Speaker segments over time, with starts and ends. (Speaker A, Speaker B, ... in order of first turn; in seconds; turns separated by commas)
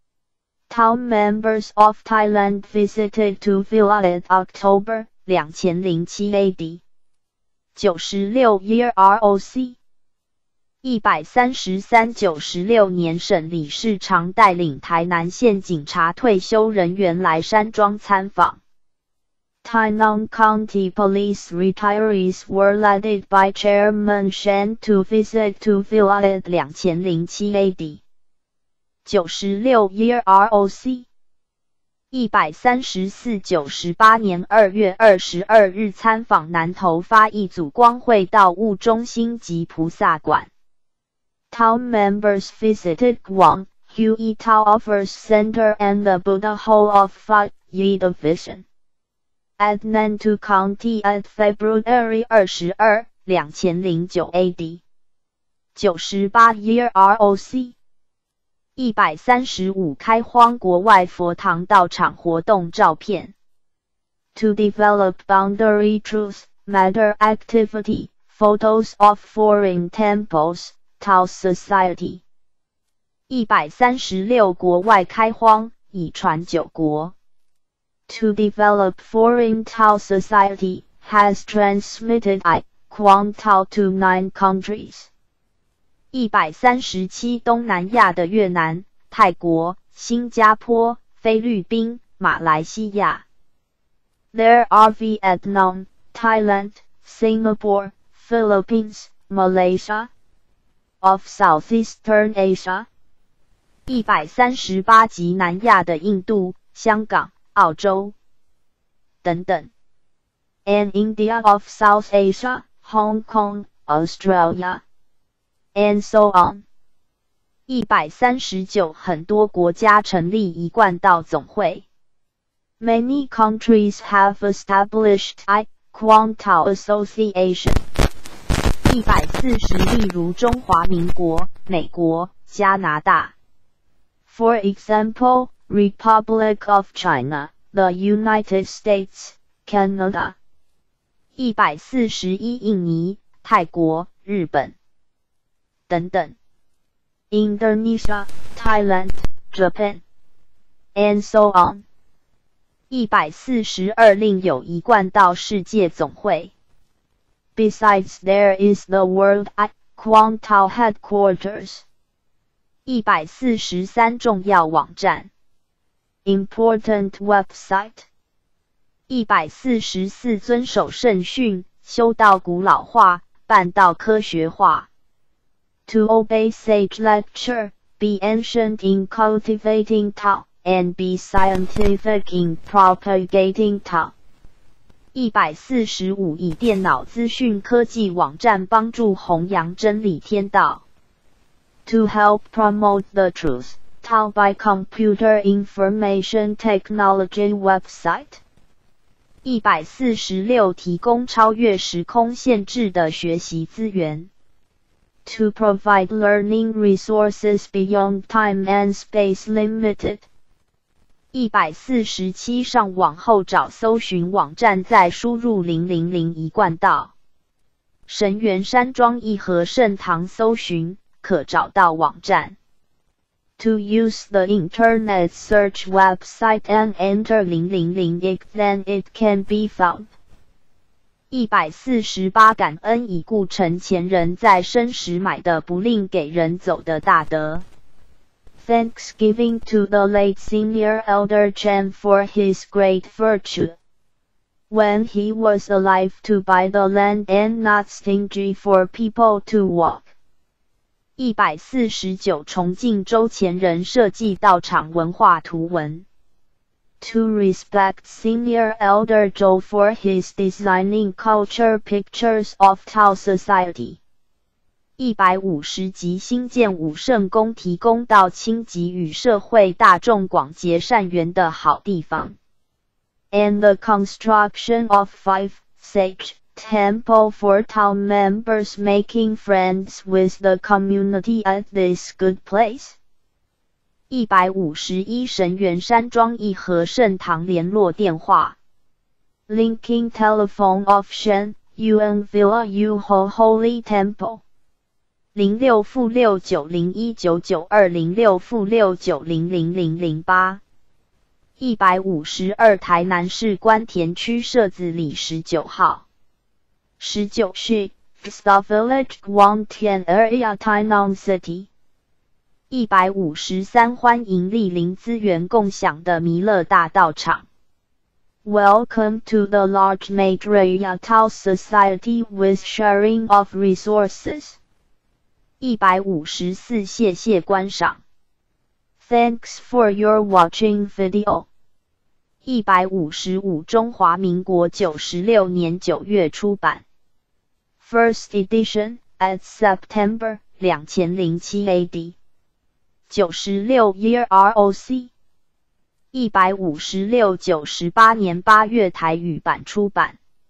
Speaker A: 0.7-6.8, Speaker B: 5.3-6.2, Speaker A: 7.8-9.8, Speaker B: 10.8-18.6, Speaker A: 19.6-28.0, Speaker B: 26.5-27.5, Speaker A: 29.1-31.1, Speaker B: 32.1-40.5, Speaker A: 41.5-48.6, Speaker A: 49.6-54.8, Speaker A: 55.8-57.8, Speaker B: 58.8-63.3, Speaker A: 64.3-72.2, Speaker B: 73.3-77.1, Speaker A: 75.7-76.1, Speaker A: 78.1-85.1, Speaker B: 86.1-93.2, Speaker A: 89.7-93.2, Speaker A: 94.3-100.1, Speaker A: 101.0-102.9, Speaker B: 103.9-107.8, Speaker A: 105.8-108.1, Speaker A: 109.2-109.7, Speaker A: 110.7-114.8, Speaker A: 115.8-116.7, Speaker B: 117.7-121.8, Speaker A: 122.8-127.8, Speaker B: 128.9-133.3, Speaker A: 131.9-132.5, Speaker A: 134.3-140.4, Speaker B: 141.4-144.7, Speaker A: 142.6-144.7, Speaker A: 145.9-146.3, Speaker A: 147.3-150.0, Speaker A: 150.9-151.8, Speaker B: 152.9-156.5, Speaker A: 157.6-161.8, Speaker B: 162.9-165.3, Speaker A: 166.2-168.1, Speaker B: 169.1-174.9, Speaker A: 170.1-172.4, Speaker A: 173.2-174.8, Speaker A: 175.9-184.1, Speaker B: 185.2-190.8, Speaker A: 191.9-198.4, Speaker B: 199.4-204.3, Speaker A: 205.3-210.3, Speaker B: 211.3-217.1, Speaker A: 216.2-216.6, Speaker B: 218.1-222.6, Speaker A: 220.3-221.2, Speaker A: 223.6-230.1, Speaker B: 231.3-237.6, Speaker A: 238.6-243.8, Speaker A: 244.7-250.1, Speaker B: 251.2-256.1, Speaker A: 257.0-264.0, Speaker B: 265.0-272.3, Speaker A: 271.1-272.3, Speaker A: 273.3-283.0, Speaker B: 284.1-288.6, Speaker A: 289.5-294.4, Speaker B: 295.4-300.6, Speaker A: 298.3-300.3, Speaker A: 301.6-306.0, Speaker B: 301.6-306.0, Speaker A: 307.0-311.7, Speaker B: 312.7-317.4, Speaker A: 318.4-324.6, Speaker B: 325.6-328.0, Speaker A: 329.0-331.5, Speaker B: 332.5-336.8, Speaker A: 332.7-333.7, Speaker A: 334.9-335.3, Speaker A: 336.0-336.8, Speaker A: 337.8-342.1, Speaker A: 343.1-345.1, Speaker B: 346.1-350.2, Speaker A: 346.7-347.4, Speaker A: 348.8-350.1